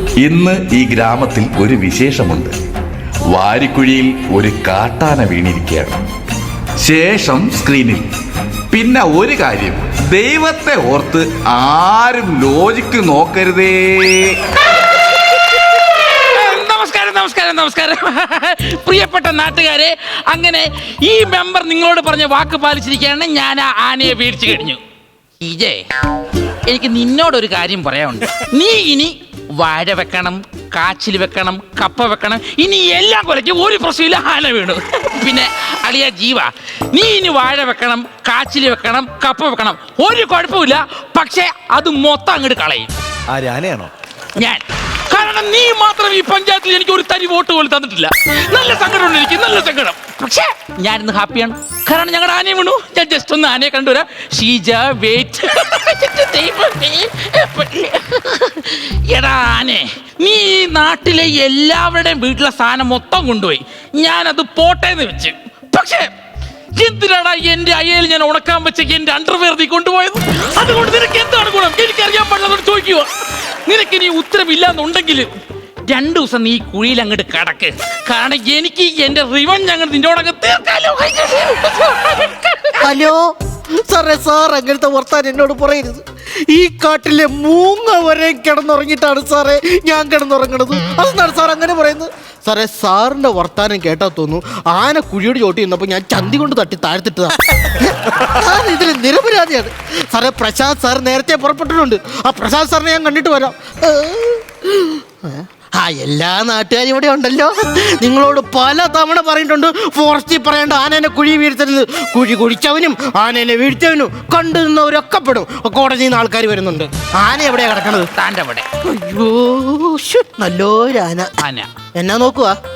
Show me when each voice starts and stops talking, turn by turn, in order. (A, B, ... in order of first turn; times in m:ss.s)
0:00.2-0:02.5 A
0:03.3-0:06.0 A
0:06.8-0:08.0 A
0:08.7-0:14.4 A
0:15.7-0:24.8 B
0:25.4-0:25.8 B
0:26.7-0:42.9 B
0:44.4-1:06.0 B
1:06.8-1:13.1 B
1:13.7-1:15.3 B
1:15.9-1:22.8 B
1:22.8-1:23.2 C
1:23.9-1:58.1 C
1:58.1-1:58.6 B
1:58.8-2:01.3 C
2:01.4-2:01.7 B
2:02.0-2:02.5 C